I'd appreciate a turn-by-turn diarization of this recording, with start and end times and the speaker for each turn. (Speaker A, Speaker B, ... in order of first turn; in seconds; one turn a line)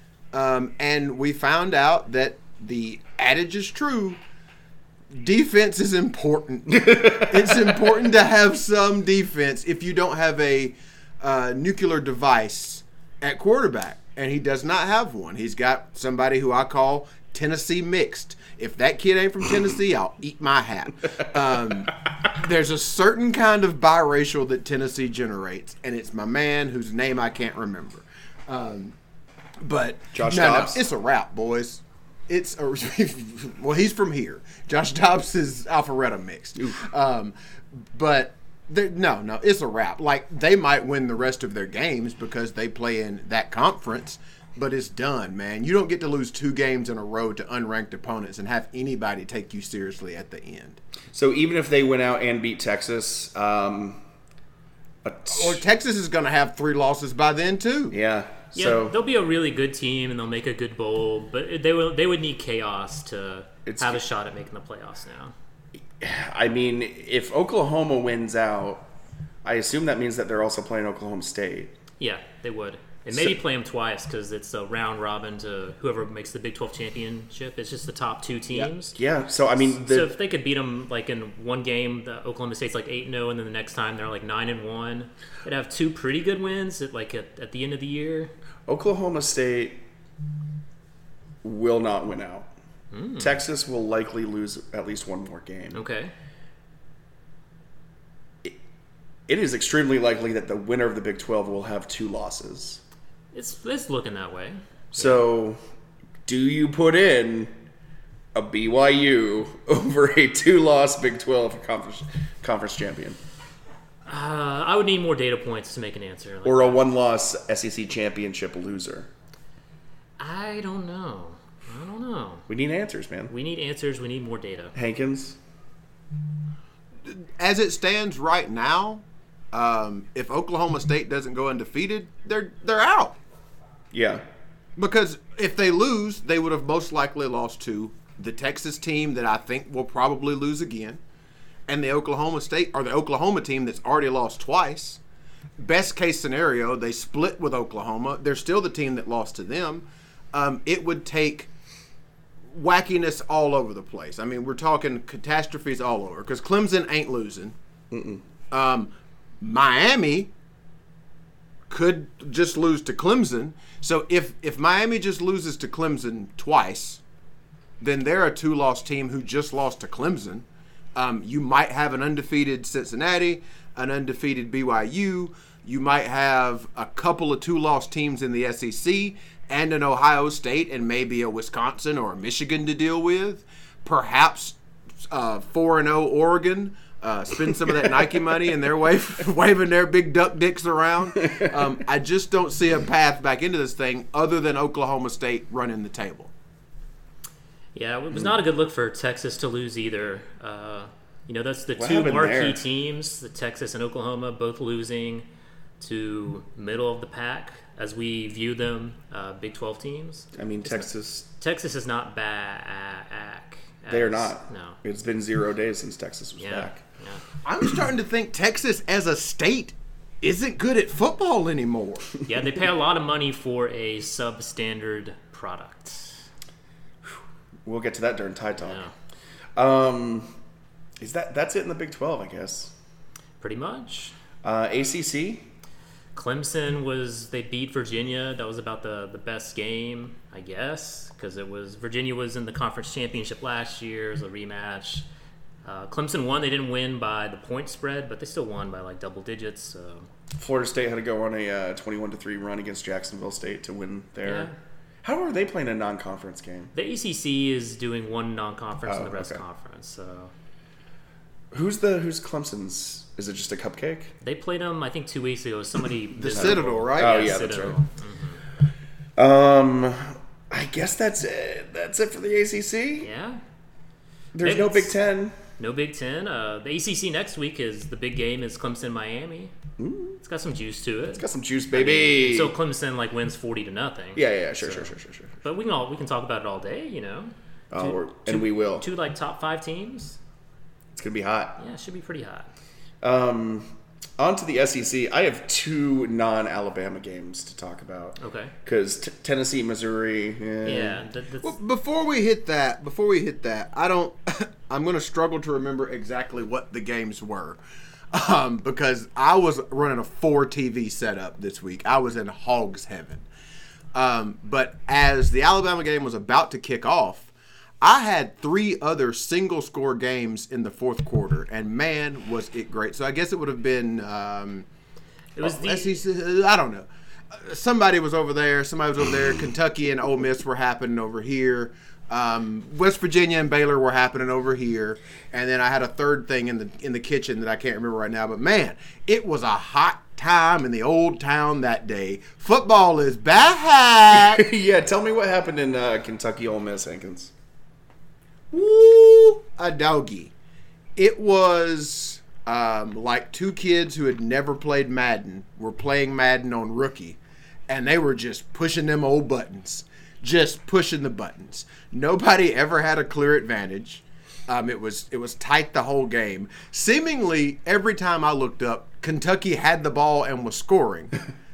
Speaker A: 0.3-4.2
Speaker A: 5.1-28.9
Speaker B: 6.7-7.9
Speaker A: 29.6-50.8
Speaker B: 30.1-30.8
Speaker B: 36.6-36.9
Speaker B: 51.1-54.0
Speaker B: 55.0-55.6
Speaker A: 55.3-58.0
Speaker B: 57.9-59.0
Speaker C: 58.5-65.3
Speaker B: 63.7-64.0
Speaker B: 66.0-68.9
Speaker B: 69.5-71.8
Speaker C: 72.0-79.0
Speaker B: 73.1-73.4
Speaker B: 78.5-80.1
Speaker C: 79.6-88.3
Speaker B: 88.7-89.8
Speaker B: 91.4-92.5
Speaker C: 92.9-93.3
Speaker B: 93.2-95.8
Speaker C: 95.7-96.1
Speaker B: 99.3-102.8
Speaker C: 103.3-105.2
Speaker B: 104.9-105.6
Speaker B: 106.3-107.5
Speaker B: 108.3-113.2
Speaker C: 114.1-116.9
Speaker B: 116.4-119.1
Speaker C: 120.2-122.5
Speaker B: 122.5-123.3
Speaker C: 123.3-124.7
Speaker B: 124.8-125.4
Speaker A: 127.1-133.2
Speaker B: 133.9-134.2
Speaker A: 134.8-141.0
Speaker A: 141.7-145.0
Speaker A: 145.6-151.5
Speaker A: 152.5-157.6
Speaker B: 157.9-158.2
Speaker A: 158.5-160.3
Speaker A: 161.7-167.0
Speaker A: 167.8-196.3
Speaker B: 191.2-191.5
Speaker C: 197.8-205.2
Speaker B: 201.8-202.6
Speaker C: 205.8-214.8
Speaker B: 210.4-211.3
Speaker B: 213.9-216.8
Speaker C: 216.4-217.2
Speaker A: 217.4-222.1
Speaker C: 222.3-226.2
Speaker B: 227.1-228.8
Speaker C: 228.6-228.9
Speaker B: 229.6-230.3
Speaker B: 231.0-232.7
Speaker C: 233.4-234.2
Speaker B: 234.4-235.5
Speaker C: 236.2-245.1
Speaker C: 245.6-250.1
Speaker B: 250.4-254.5
Speaker C: 254.2-254.5
Speaker B: 255.0-256.7
Speaker C: 256.7-260.3
Speaker B: 258.9-259.4
Speaker B: 261.5-264.1
Speaker C: 264.2-268.4
Speaker A: 266.2-267.4
Speaker B: 266.3-267.8
Speaker B: 269.2-273.1
Speaker C: 273.0-273.4
Speaker B: 274.4-275.4
Speaker C: 274.4-275.0
Speaker C: 275.6-279.5
Speaker B: 279.8-280.2
Speaker C: 280.2-290.2
Speaker B: 281.2-282.5
Speaker B: 284.1-285.3
Speaker B: 287.7-288.9
Speaker B: 290.9-291.6
Speaker C: 291.6-292.5
Speaker B: 293.0-301.0
Speaker C: 298.2-298.5
Speaker C: 300.6-301.5
Speaker A: 301.4-307.6
Speaker A: 308.1-313.3
Speaker A: 313.9-317.3
Speaker A: 317.8-324.7
Speaker C: 325.4-326.0
Speaker A: 325.4-344.5
Speaker B: 344.1-347.3
Speaker A: 348.5-350.3
Speaker A: 351.0-371.1